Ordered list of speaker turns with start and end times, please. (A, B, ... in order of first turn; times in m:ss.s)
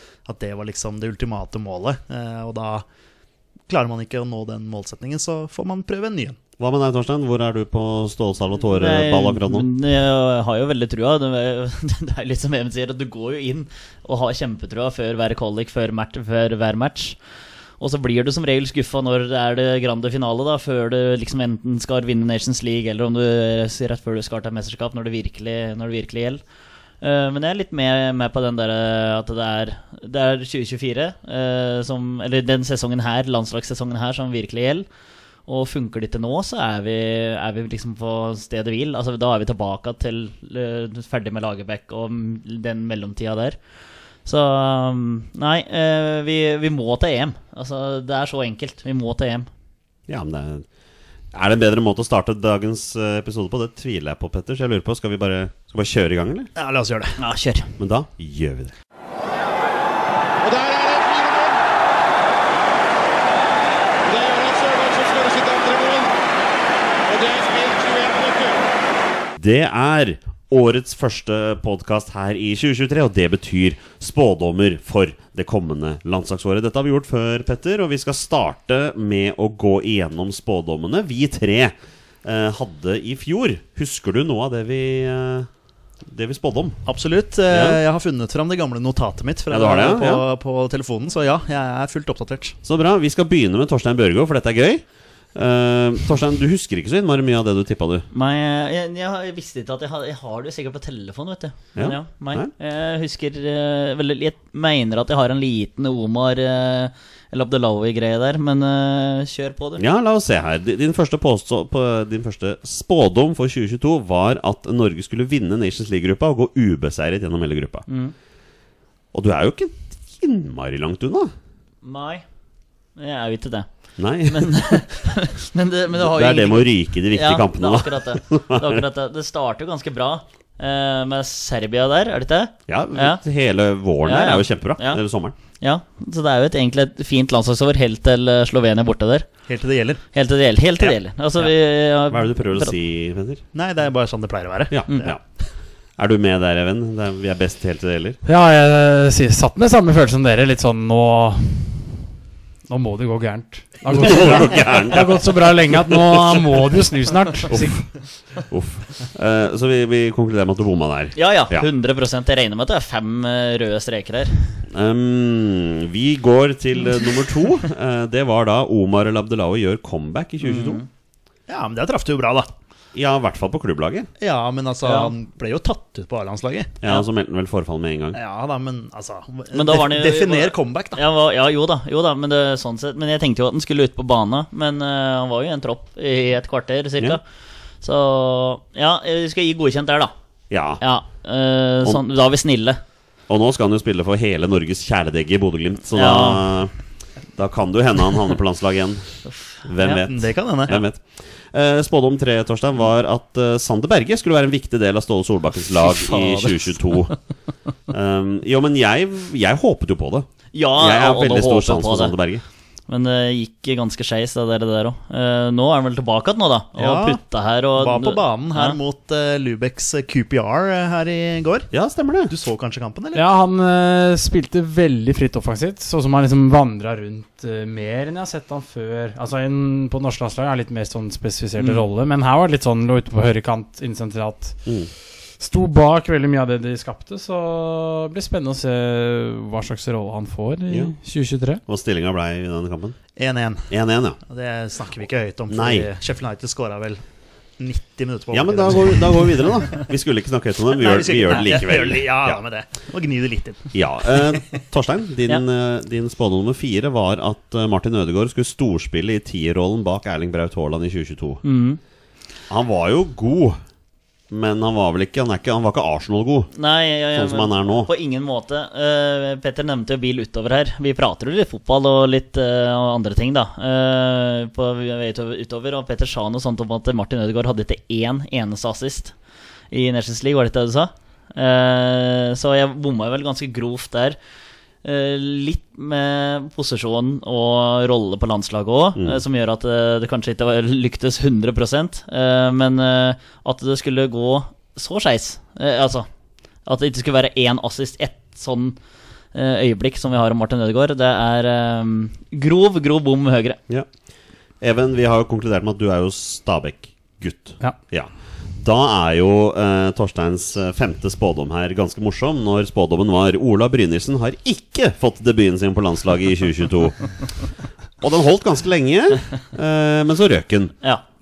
0:00.2-0:02.8 A
0:03.7-0:06.4 A
0:06.6-0:09.7 B
0:08.7-0:17.2 C
0:17.8-0:26.4 C
0:27.0-0:34.8 C
0:35.5-0:43.6 C
0:44.2-0:49.5 C
0:50.1-0:50.7 B
0:51.3-0:56.5 B
0:56.6-0:57.1 A
0:57.2-0:57.7 C
0:57.8-0:58.7 B
1:00.4-1:01.6 D
1:04.0-1:06.1 D
1:07.0-1:08.6 D
1:09.4-1:25.5 B
1:26.1-1:26.8 B
1:26.8-1:32.6 A
1:27.5-1:27.8 B
1:29.5-1:30.2 B
1:32.6-1:38.0 B
1:38.1-1:49.8 C
1:41.8-1:42.5 B
1:49.8-1:57.8 B
1:57.9-1:58.1 C
1:59.1-2:01.3 B
2:01.8-2:02.2 C
2:03.0-2:13.2 C
2:04.0-2:04.8 B
2:05.9-2:08.8 B
2:12.7-2:15.3 B
2:14.0-2:15.0 C
2:15.6-2:19.3 C
2:19.5-2:20.0 A
2:20.1-2:22.7 C
2:22.1-2:23.4 B
2:23.5-2:25.2 A
2:24.7-2:25.2 B
2:26.0-2:28.2 B
2:28.2-2:32.0 E
2:32.7-2:37.8 E
2:33.8-2:36.6 B
2:37.5-2:37.9 B
2:38.4-2:41.7 B
2:41.2-2:44.3 C
2:44.7-2:50.8 B
2:50.4-2:50.9 C
2:51.5-2:52.5 A
2:52.9-2:54.1 B
2:54.2-2:56.7 A
2:54.8-2:55.1 C
2:56.8-2:58.2 B
2:58.1-3:01.0 A
2:59.5-3:07.2 C
3:07.8-3:10.1 C
3:10.5-3:10.8 B
3:10.8-3:12.8 C
3:13.3-3:16.7 B
3:15.9-3:16.4 C
3:17.3-3:27.2 B
3:20.0-3:20.8 A
3:25.8-3:27.1 C
3:27.9-3:32.4 B
3:30.5-3:32.1 C
3:32.9-3:38.8 C
3:36.8-3:37.2 A
3:37.7-3:41.7 A
3:41.7-3:42.3 B
3:42.3-3:43.2 A
3:43.1-3:54.7 E
3:55.4-4:01.6 E
4:01.7-4:03.0 B
4:03.2-4:03.7 A
4:03.7-4:04.2 B
4:04.3-4:07.0 A
4:05.5-4:05.9 B
4:07.6-4:09.8 A
4:08.3-4:12.4 B
4:10.8-4:14.4 A
4:13.7-4:21.4 B
4:21.4-4:21.8 C
4:22.5-4:23.6 B
4:24.3-4:26.5 B
4:26.5-4:39.1 C
4:27.1-4:27.9 B
4:39.7-4:44.2 C
4:44.8-4:56.1 C
4:49.0-4:49.2 B
4:56.6-4:58.8 C
4:59.3-5:03.6 C
5:04.6-5:17.1 B
5:18.0-5:20.8 B